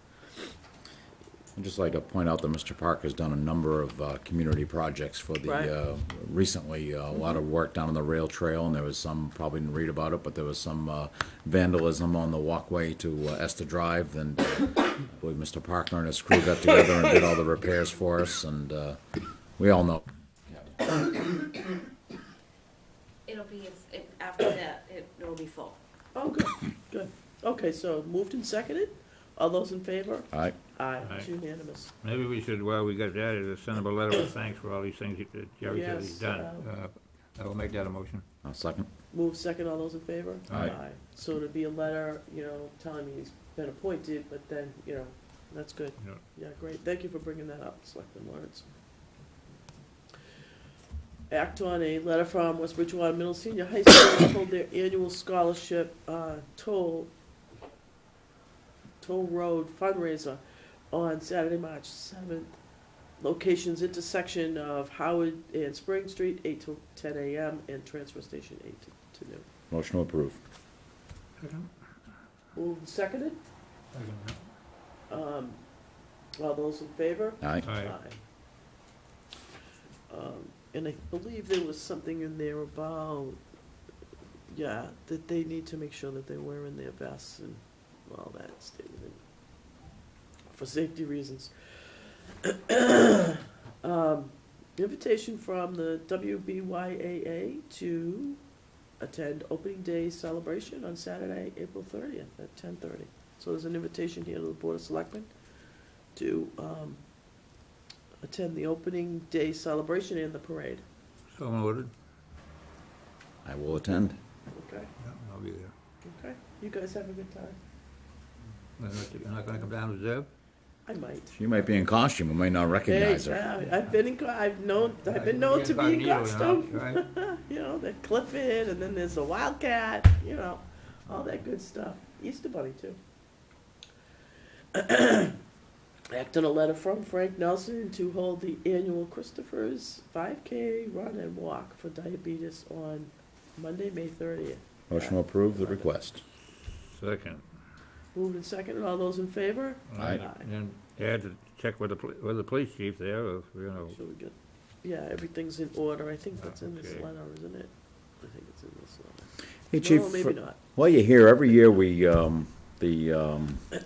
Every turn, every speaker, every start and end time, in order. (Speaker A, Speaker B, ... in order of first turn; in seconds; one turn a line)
Speaker A: 1.6-19.0
Speaker B: 5.4-5.7
Speaker A: 19.6-20.7
Speaker C: 23.3-25.8
Speaker B: 26.1-31.9
Speaker D: 31.0-31.3
Speaker D: 32.0-38.2
Speaker B: 35.6-36.7
Speaker A: 38.4-38.9
Speaker B: 39.1-48.7
Speaker D: 40.5-40.8
Speaker A: 40.5-40.8
Speaker B: 51.3-57.1
Speaker B: 59.0-62.6
Speaker B: 63.2-69.5
Speaker A: 69.7-70.4
Speaker D: 71.4-71.7
Speaker B: 72.5-73.4
Speaker D: 73.9-74.4
Speaker B: 75.1-75.6
Speaker B: 76.4-78.2
Speaker A: 77.4-77.7
Speaker D: 77.6-77.9
Speaker B: 80.1-83.4
Speaker B: 84.5-89.2
Speaker B: 90.5-98.4
Speaker B: 99.0-105.3
Speaker B: 106.2-107.0
Speaker B: 108.2-110.8
Speaker D: 111.3-111.9
Speaker A: 113.5-114.2
Speaker B: 114.5-114.9
Speaker D: 115.0-115.7
Speaker B: 116.0-117.6
Speaker D: 118.8-120.3
Speaker B: 120.9-121.4
Speaker A: 121.3-123.5
Speaker B: 122.9-133.0
Speaker D: 124.9-127.0
Speaker B: 134.7-135.4
Speaker B: 136.1-145.9
Speaker A: 144.9-146.2
Speaker D: 146.9-147.4
Speaker B: 148.1-150.5
Speaker D: 149.9-154.0
Speaker B: 153.8-160.6
Speaker D: 156.4-157.1
Speaker A: 159.7-163.6